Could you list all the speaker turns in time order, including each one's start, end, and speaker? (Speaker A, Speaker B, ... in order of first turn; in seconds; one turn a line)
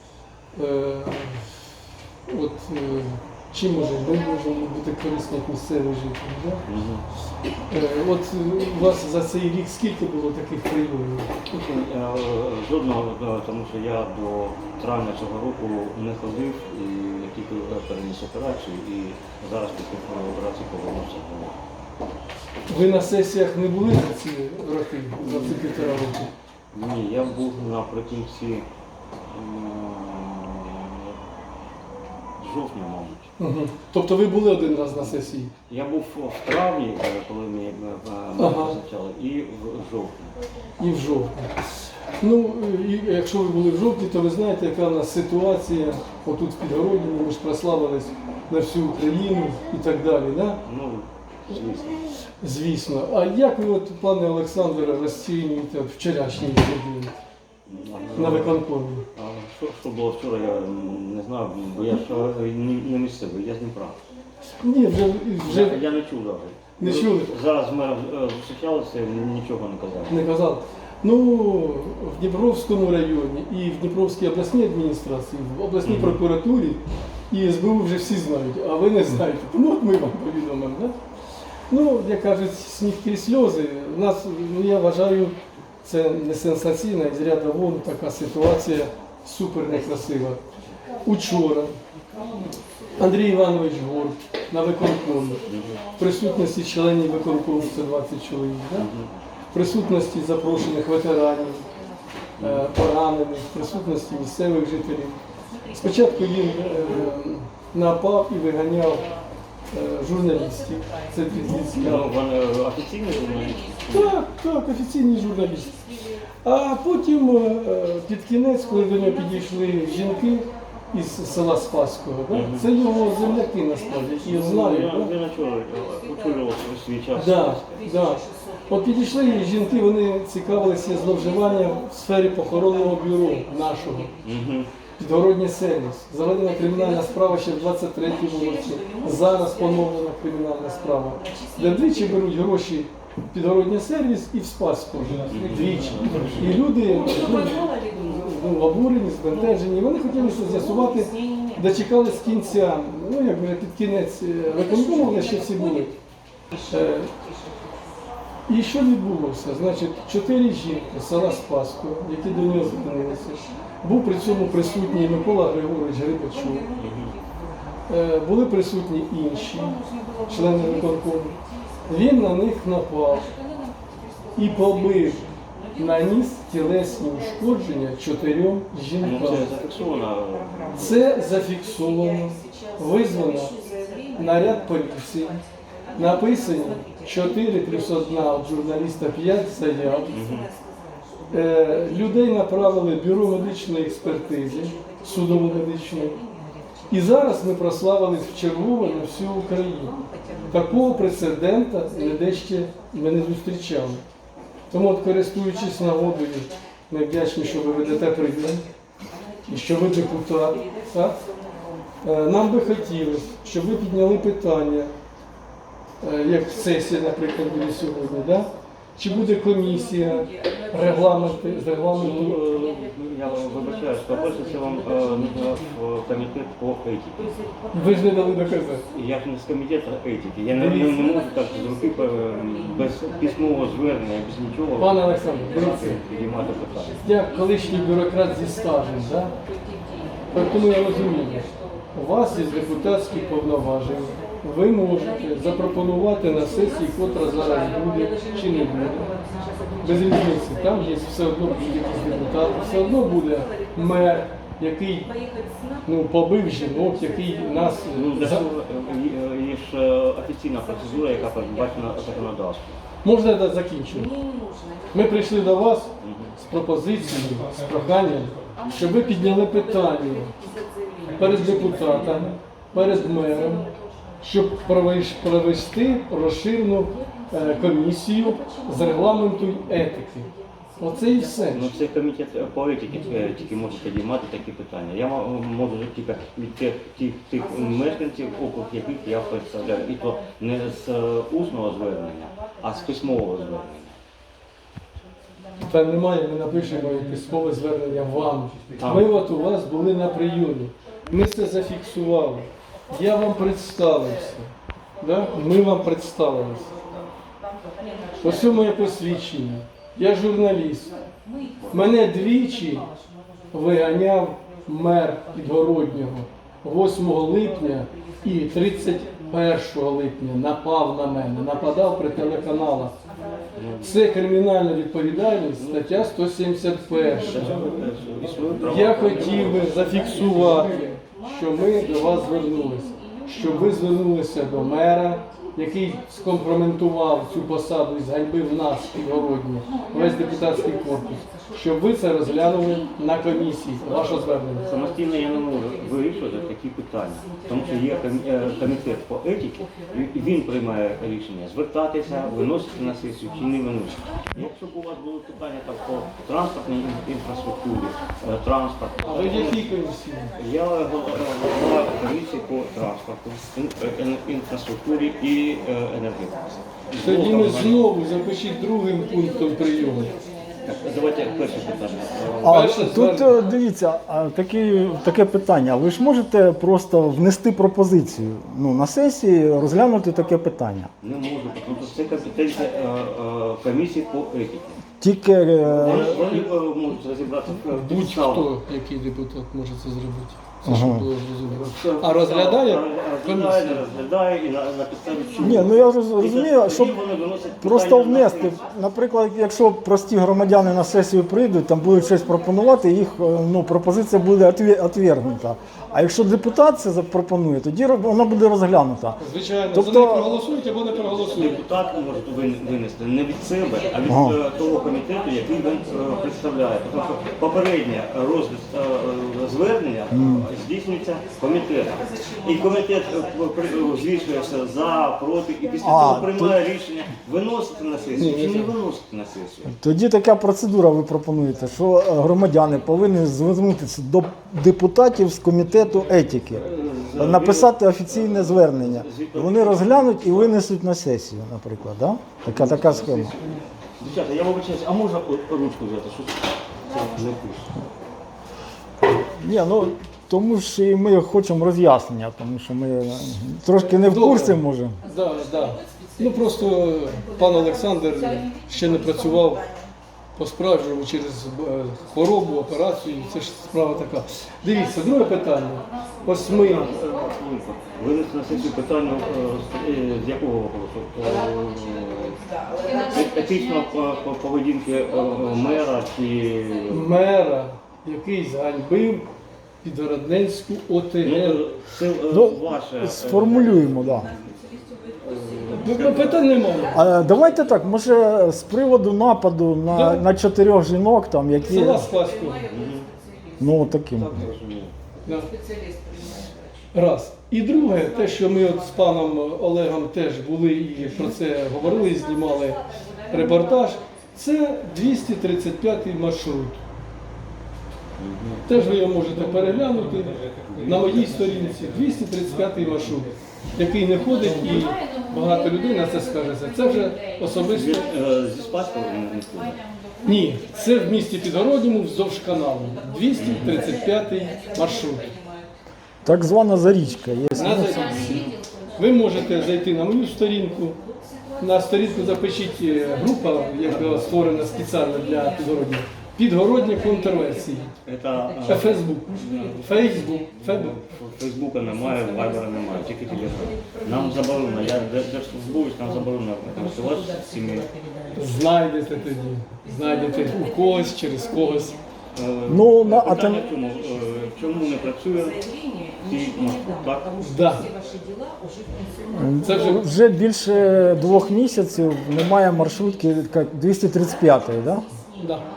Speaker A: 0.5-1.7
Speaker A: 2.3-6.6
Speaker B: 6.7-7.0
Speaker A: 7.7-11.3
Speaker B: 11.5-21.6
Speaker A: 22.7-26.3
Speaker B: 26.7-28.7
Speaker B: 29.3-31.1
Speaker B: 32.4-33.3
Speaker A: 33.4-35.5
Speaker B: 34.9-40.4
Speaker A: 38.4-38.8
Speaker A: 40.8-41.7
Speaker A: 42.2-50.6
Speaker B: 50.6-52.0
Speaker A: 52.4-57.2
Speaker B: 57.7-58.6
Speaker A: 58.1-59.1
Speaker B: 59.1-64.0
Speaker A: 64.6-65.8
Speaker B: 65.4-70.2
Speaker A: 66.8-67.3
Speaker A: 70.1-81.0
Speaker B: 75.8-76.2
Speaker A: 81.7-90.4
Speaker A: 91.0-91.8
Speaker A: 93.0-95.4
Speaker B: 95.5-95.8
Speaker A: 96.0-98.9
Speaker B: 98.8-99.2
Speaker A: 99.5-101.7
Speaker B: 102.4-102.7
Speaker A: 102.4-105.2
Speaker A: 105.7-109.0
Speaker A: 109.7-112.1
Speaker B: 111.7-114.2
Speaker A: 113.9-115.8
Speaker A: 116.4-125.1
Speaker B: 122.3-122.7
Speaker B: 124.2-127.8
Speaker A: 127.2-134.1
Speaker B: 134.2-134.7
Speaker A: 135.0-156.0
Speaker B: 145.3-146.4
Speaker A: 156.7-157.1
Speaker A: 158.5-166.7
Speaker B: 166.8-167.2
Speaker A: 167.9-173.3
Speaker A: 174.3-179.5
Speaker B: 179.0-180.9
Speaker A: 180.8-183.6
Speaker A: 184.1-185.4
Speaker A: 185.9-190.1
Speaker B: 190.1-190.5
Speaker A: 191.3-196.2
Speaker A: 196.9-199.9
Speaker A: 200.5-204.0
Speaker A: 204.7-208.7
Speaker A: 209.5-211.2
Speaker A: 212.0-214.9
Speaker A: 216.0-222.4
Speaker B: 222.0-227.3
Speaker A: 227.7-228.8
Speaker B: 228.9-237.0
Speaker A: 230.5-231.0
Speaker A: 234.8-236.0
Speaker A: 237.0-239.3
Speaker A: 240.3-249.1
Speaker A: 249.8-255.1
Speaker A: 255.8-258.4
Speaker B: 257.9-262.8
Speaker A: 263.0-264.1
Speaker A: 264.9-270.3
Speaker B: 266.0-266.4
Speaker A: 271.1-273.7
Speaker A: 274.2-281.7
Speaker B: 281.5-294.0
Speaker A: 295.6-306.8
Speaker B: 298.8-299.1
Speaker A: 308.2-311.0
Speaker A: 311.7-312.9
Speaker A: 313.5-323.0
Speaker B: 323.6-323.9
Speaker A: 323.8-327.7
Speaker B: 325.6-325.9
Speaker B: 327.2-329.7
Speaker A: 328.6-344.7
Speaker B: 344.6-359.7
Speaker A: 359.0-360.4
Speaker B: 360.4-367.9
Speaker A: 367.0-370.1
Speaker B: 370.6-372.7
Speaker C: 372.4-380.9
Speaker A: 372.4-373.4
Speaker B: 381.0-384.8
Speaker C: 385.0-386.4
Speaker B: 385.7-388.5
Speaker A: 387.5-393.9
Speaker C: 390.6-391.1
Speaker B: 391.5-398.7
Speaker C: 395.4-397.0
Speaker C: 397.6-409.2
Speaker A: 409.2-411.6
Speaker C: 409.7-410.4
Speaker B: 411.2-429.7
Speaker C: 414.1-414.4
Speaker C: 420.1-420.5
Speaker C: 425.8-426.6
Speaker A: 428.2-428.7
Speaker C: 429.7-443.3
Speaker B: 436.6-440.6
Speaker B: 442.5-447.7
Speaker C: 449.4-455.0
Speaker A: 453.8-459.6
Speaker A: 460.4-466.9
Speaker B: 466.4-472.4
Speaker B: 473.0-477.1
Speaker A: 476.9-479.2
Speaker A: 479.8-481.6
Speaker B: 481.2-486.4
Speaker C: 482.3-484.3
Speaker A: 485.7-487.0
Speaker C: 486.9-492.1
Speaker A: 489.9-490.2
Speaker A: 491.6-492.6
Speaker B: 492.7-493.1
Speaker C: 493.6-494.5
Speaker B: 494.2-494.9
Speaker A: 495.2-495.5
Speaker A: 496.9-506.8
Speaker B: 508.2-508.7
Speaker A: 508.7-518.1
Speaker B: 517.7-519.8
Speaker A: 520.2-525.3
Speaker B: 523.4-523.7
Speaker C: 526.2-528.4
Speaker A: 527.6-531.0
Speaker B: 528.2-528.6
Speaker A: 531.6-537.9
Speaker B: 538.0-540.1
Speaker A: 538.7-541.0
Speaker B: 540.6-547.9
Speaker A: 548.4-552.0
Speaker B: 552.3-555.6
Speaker C: 552.7-553.7
Speaker B: 556.2-557.3
Speaker A: 557.4-557.9
Speaker C: 559.3-565.1
Speaker A: 559.6-560.0
Speaker A: 565.4-565.6